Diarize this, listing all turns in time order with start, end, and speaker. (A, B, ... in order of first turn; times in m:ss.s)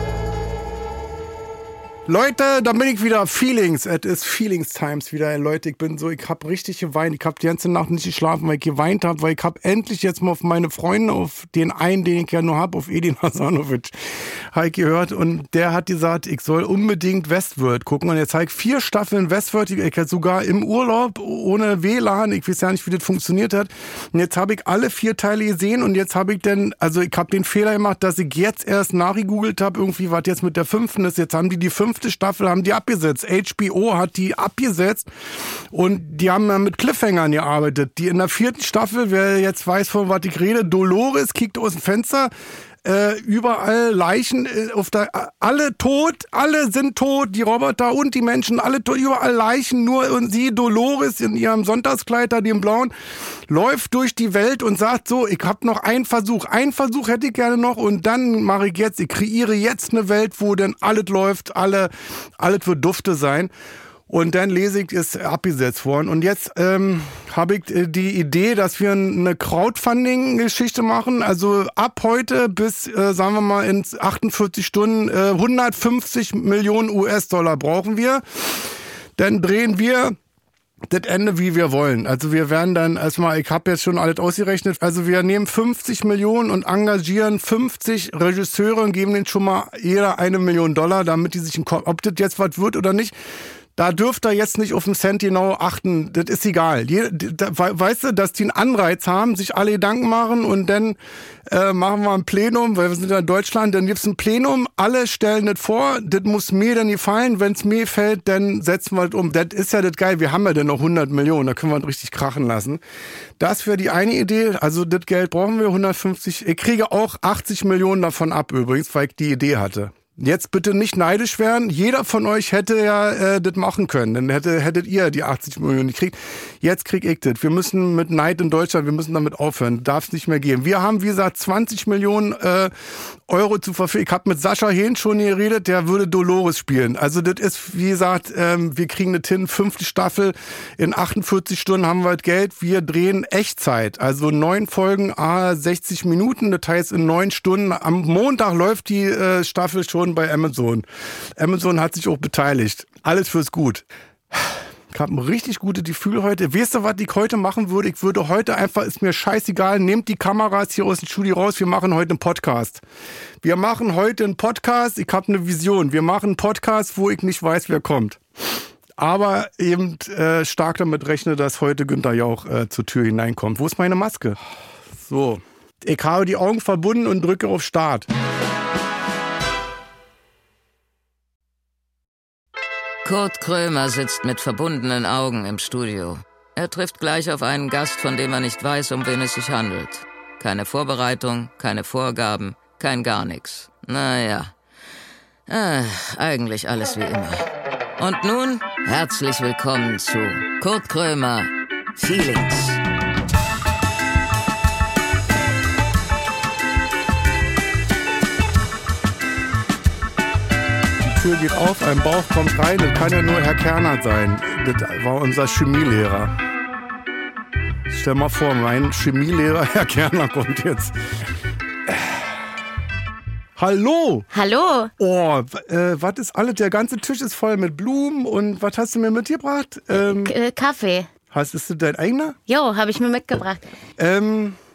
0:02.0-0:42.3 A
0:42.8-1:03.5 A
1:04.1-1:20.2 A
1:20.9-1:33.1 A
1:33.8-1:52.8 A
1:53.4-2:42.8 A
2:43.4-2:54.4 A
2:54.9-2:58.1 A
3:03.0-3:14.5 B
3:15.5-3:22.8 B
3:31.0-3:36.3 A
3:37.9-3:41.0 A
3:41.9-3:42.2 A
3:43.6-3:44.3 A
3:44.3-3:44.9 C
3:45.0-3:50.3 A
3:49.9-3:51.1 C
3:51.3-3:52.4 A
3:52.5-3:53.6 C
3:54.0-3:54.6 A